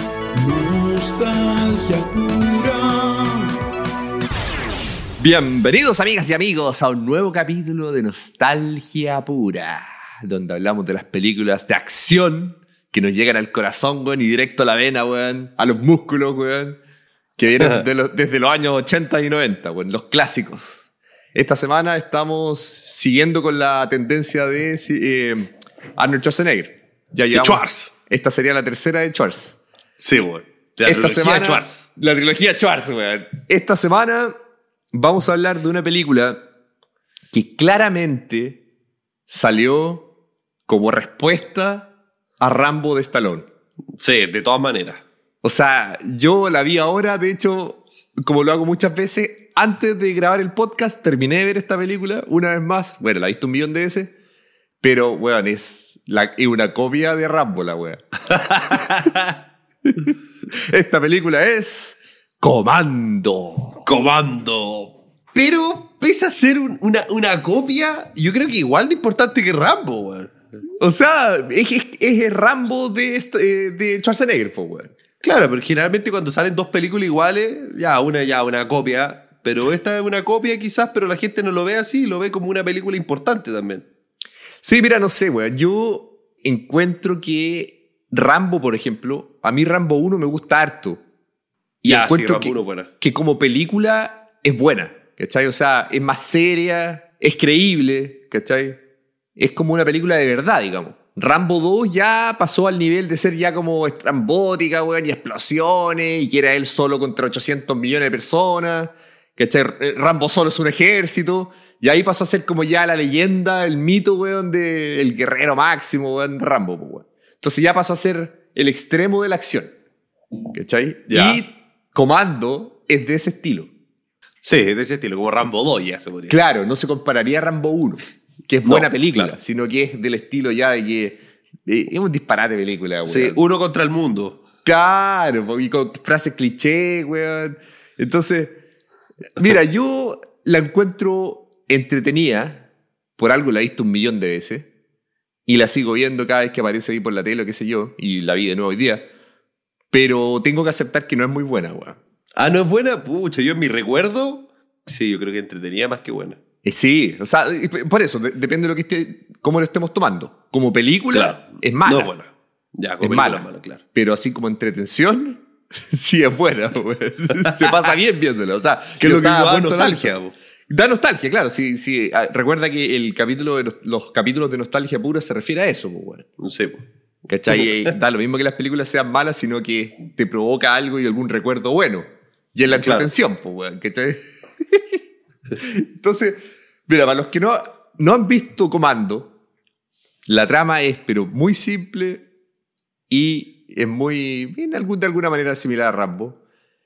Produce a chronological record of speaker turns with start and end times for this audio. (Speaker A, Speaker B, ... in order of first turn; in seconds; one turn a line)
Speaker A: 0.3-3.5
Speaker B: 5.2-16.8
Speaker B: 17.4-29.6
Speaker C: 27.3-27.9
Speaker C: 30.0-31.9
Speaker B: 30.8-34.3
Speaker B: 34.9-36.4
Speaker B: 37.3-38.6
Speaker B: 39.3-40.1
Speaker B: 40.7-43.5
Speaker C: 44.0-45.0
Speaker B: 45.4-54.1
Speaker B: 54.8-58.0
Speaker C: 58.3-59.4
Speaker B: 59.9-63.8
Speaker C: 63.8-70.3
Speaker B: 70.8-74.9
Speaker C: 75.2-83.8
Speaker B: 84.6-91.0
Speaker B: 91.8-98.8
Speaker C: 91.9-92.9
Speaker B: 99.4-119.7
Speaker B: 120.5-123.7
Speaker C: 121.1-121.4
Speaker C: 124.4-126.4
Speaker B: 126.3-133.4
Speaker C: 128.6-129.3
Speaker C: 133.0-134.4
Speaker B: 134.6-138.6
Speaker B: 139.3-142.6
Speaker B: 143.2-144.7
Speaker B: 145.5-149.1
Speaker B: 149.9-152.0
Speaker C: 152.4-156.4
Speaker B: 156.6-162.1
Speaker C: 161.1-163.8
Speaker B: 163.0-170.1
Speaker C: 167.4-167.7
Speaker C: 169.0-170.3
Speaker B: 170.7-176.3
Speaker C: 176.4-176.8
Speaker B: 177.3-185.0
Speaker C: 177.5-177.9
Speaker C: 182.7-183.1
Speaker B: 185.6-189.3
Speaker B: 190.2-192.2
Speaker B: 193.1-196.4